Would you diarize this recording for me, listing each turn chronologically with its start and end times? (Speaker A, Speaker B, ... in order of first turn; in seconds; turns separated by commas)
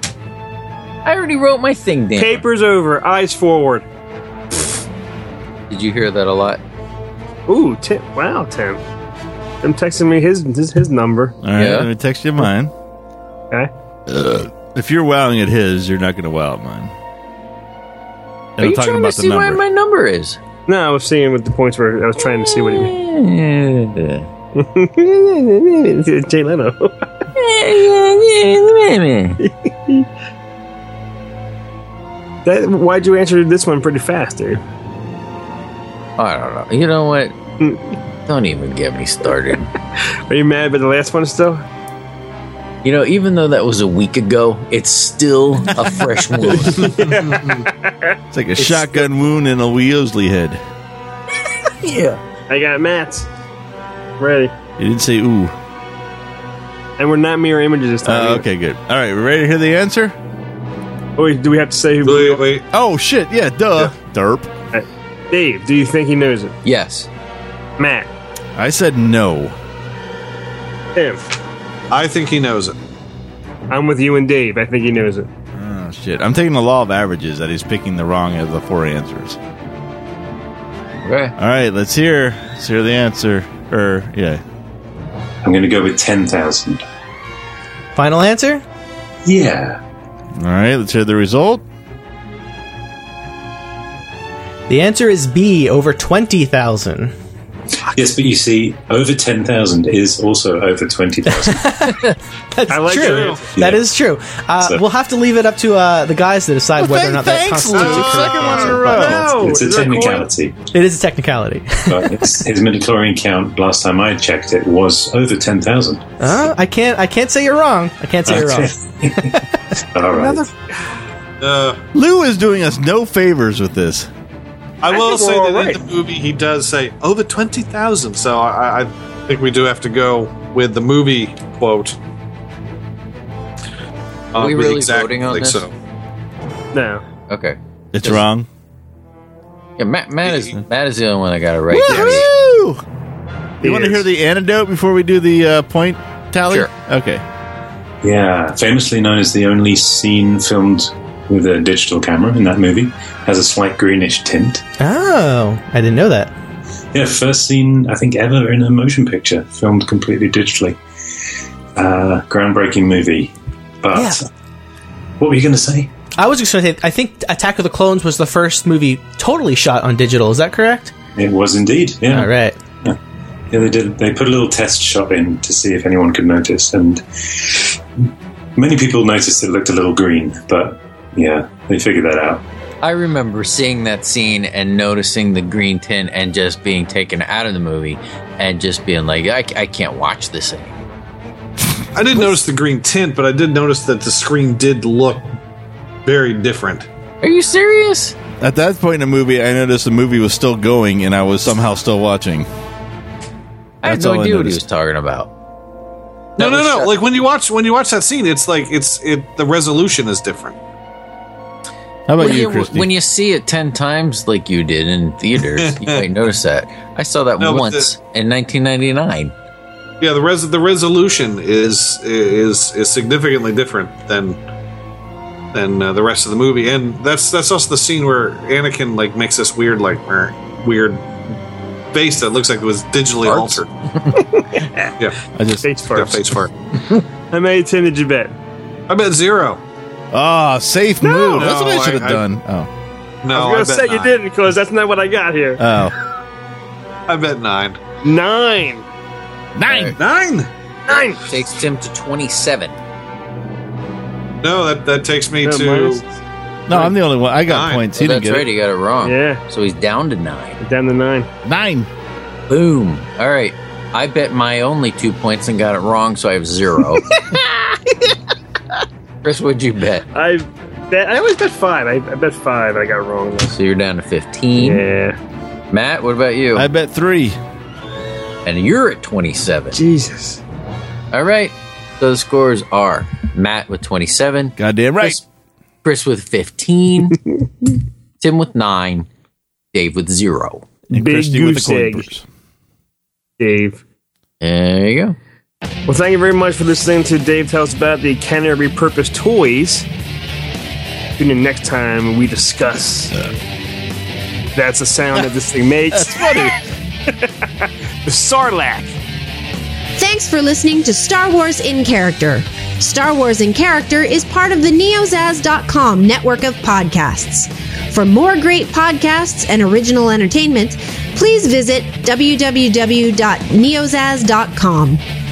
Speaker A: 1.0-2.4, Speaker B: 2.1-3.9, Speaker A: 5.7-6.6, Speaker B: 7.5-8.8, Speaker B: 9.6-11.4, Speaker C: 11.4-12.7, Speaker A: 11.6-11.9, Speaker C: 14.1-16.9, Speaker C: 18.6-19.6, Speaker A: 18.6-20.4, Speaker B: 20.7-22.9, Speaker A: 22.2-24.3, Speaker B: 24.6-27.1, Speaker A: 27.3-29.4, Speaker B: 29.4-30.1, Speaker B: 32.4-34.6, Speaker A: 36.2-37.4, Speaker A: 38.2-39.7, Speaker B: 40.3-41.6, Speaker A: 42.8-47.1, Speaker B: 46.5-48.2, Speaker C: 48.3-50.6, Speaker A: 48.6-48.8, Speaker A: 51.8-52.2, Speaker B: 52.5-53.3, Speaker B: 54.2-54.5, Speaker C: 54.8-55.5, Speaker B: 57.0-58.5, Speaker C: 58.0-60.1, Speaker B: 61.2-62.4, Speaker D: 62.0-62.6, Speaker C: 62.7-64.5, Speaker B: 64.7-66.5, Speaker A: 66.6-67.1, Speaker B: 67.8-68.1, Speaker C: 68.5-69.5, Speaker B: 70.9-71.2, Speaker D: 71.9-72.7, Speaker B: 73.7-75.3, Speaker C: 75.5-79.4, Speaker A: 81.0-81.3, Speaker C: 81.4-84.4, Speaker E: 85.4-86.8, Speaker F: 87.9-88.6, Speaker E: 89.2-89.8, Speaker C: 90.4-91.6, Speaker F: 94.7-97.1, Speaker E: 97.9-102.1, Speaker F: 101.2-109.5, Speaker B: 102.7-103.5, Speaker D: 102.9-103.4, Speaker E: 103.5-103.9, Speaker C: 106.8-109.6, Speaker B: 107.8-110.3, Speaker E: 109.3-110.6, Speaker F: 110.7-112.4, Speaker E: 111.9-116.3, Speaker F: 116.2-119.4, Speaker E: 118.2-120.5, Speaker F: 120.1-120.4, Speaker D: 121.4-121.8, Speaker C: 121.9-124.1, Speaker D: 124.8-132.0, Speaker B: 124.9-125.8, Speaker D: 134.3-135.7, Speaker A: 134.3-135.7, Speaker B: 136.7-137.0, Speaker A: 137.3-138.2, Speaker C: 137.9-138.5, Speaker A: 139.8-142.3, Speaker D: 140.2-140.6, Speaker C: 141.7-142.8, Speaker B: 141.9-142.3, Speaker C: 143.6-147.2, Speaker B: 143.6-144.0, Speaker E: 148.0-154.6, Speaker F: 154.8-156.3, Speaker E: 156.9-160.8, Speaker E: 161.8-164.3, Speaker F: 163.9-164.2, Speaker E: 165.2-165.9, Speaker F: 166.2-170.9, Speaker E: 171.2-173.0, Speaker F: 172.1-172.6, Speaker E: 173.5-177.8, Speaker E: 178.6-182.4, Speaker A: 182.8-190.8, Speaker D: 191.9-195.3, Speaker D: 196.1-196.9, Speaker A: 197.2-198.2, Speaker C: 198.4-202.5, Speaker A: 203.8-205.3, Speaker C: 203.8-204.6, Speaker D: 206.4-210.6, Speaker A: 206.4-207.0, Speaker C: 212.1-212.9, Speaker A: 212.2-219.3, Speaker D: 215.4-216.1, Speaker D: 217.4-217.9, Speaker D: 220.0-224.4, Speaker D: 225.5-231.0, Speaker D: 231.9-233.7, Speaker A: 233.2-234.2, Speaker B: 234.2-234.9, Speaker C: 235.3-236.2, Speaker B: 235.6-236.2, Speaker D: 235.9-236.5, Speaker B: 237.3-238.3, Speaker D: 238.9-239.6, Speaker C: 240.1-242.7, Speaker B: 241.0-241.5, Speaker D: 241.3-242.2, Speaker D: 243.2-244.1, Speaker B: 243.3-245.6, Speaker C: 245.6-245.9, Speaker D: 247.1-247.8, Speaker B: 248.0-248.8, Speaker C: 249.5-250.0, Speaker A: 249.7-250.0, Speaker D: 250.0-250.5, Speaker B: 250.9-251.2, Speaker A: 251.3-252.8, Speaker D: 254.4-256.0, Speaker B: 255.4-256.0, Speaker C: 256.7-258.4, Speaker D: 257.4-257.9, Speaker A: 257.9-260.6, Speaker B: 259.0-259.4, Speaker B: 260.6-261.3, Speaker C: 261.4-261.9, Speaker A: 262.5-267.1, Speaker A: 269.2-270.1, Speaker B: 270.1-273.6, Speaker A: 273.5-274.8, Speaker B: 274.6-275.2, Speaker A: 275.7-276.7, Speaker C: 276.5-277.4, Speaker A: 278.4-279.8, Speaker B: 279.7-280.4, Speaker A: 281.1-285.1, Speaker C: 284.6-285.2, Speaker A: 285.8-287.2, Speaker A: 288.2-289.1, Speaker A: 289.7-290.7, Speaker C: 290.9-292.2, Speaker B: 290.9-292.1, Speaker B: 293.4-293.8, Speaker A: 294.4-295.2, Speaker B: 295.9-299.9, Speaker B: 301.2-303.3, Speaker B: 304.5-308.9, Speaker C: 306.0-306.5, Speaker G: 309.9-325.0